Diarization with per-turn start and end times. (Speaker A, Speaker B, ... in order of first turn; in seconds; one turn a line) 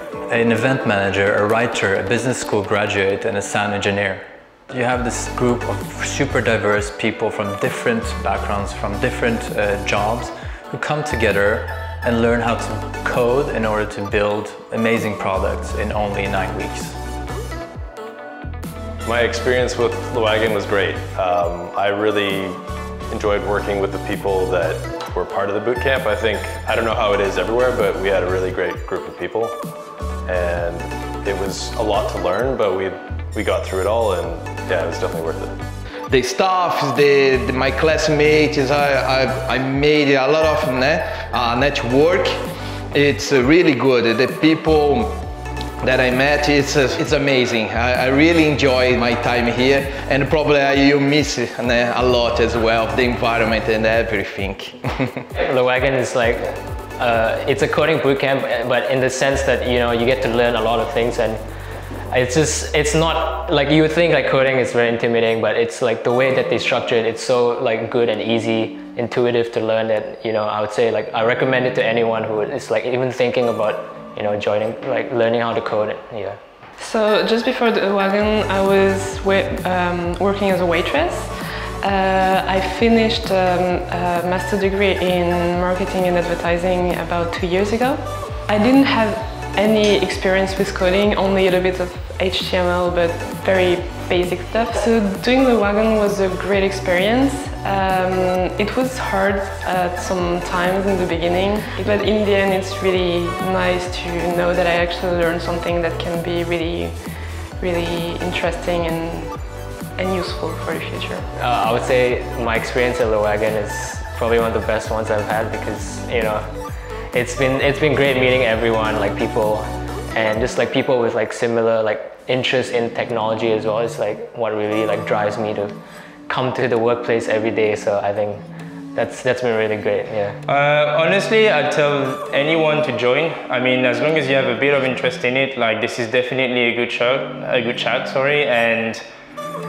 Speaker A: 0.3-17.0
Speaker B: 19.0-22.6
Speaker B: 23.1-29.6
Speaker B: 30.3-35.5
Speaker C: 36.1-42.3
Speaker C: 42.9-45.2
Speaker C: 45.8-55.2
Speaker D: 55.4-61.4
Speaker D: 62.1-76.4
Speaker E: 76.8-107.0
Speaker E: 107.6-111.2
Speaker D: 111.4-116.5
Speaker D: 117.1-125.8
Speaker D: 126.3-130.4
Speaker F: 130.4-139.0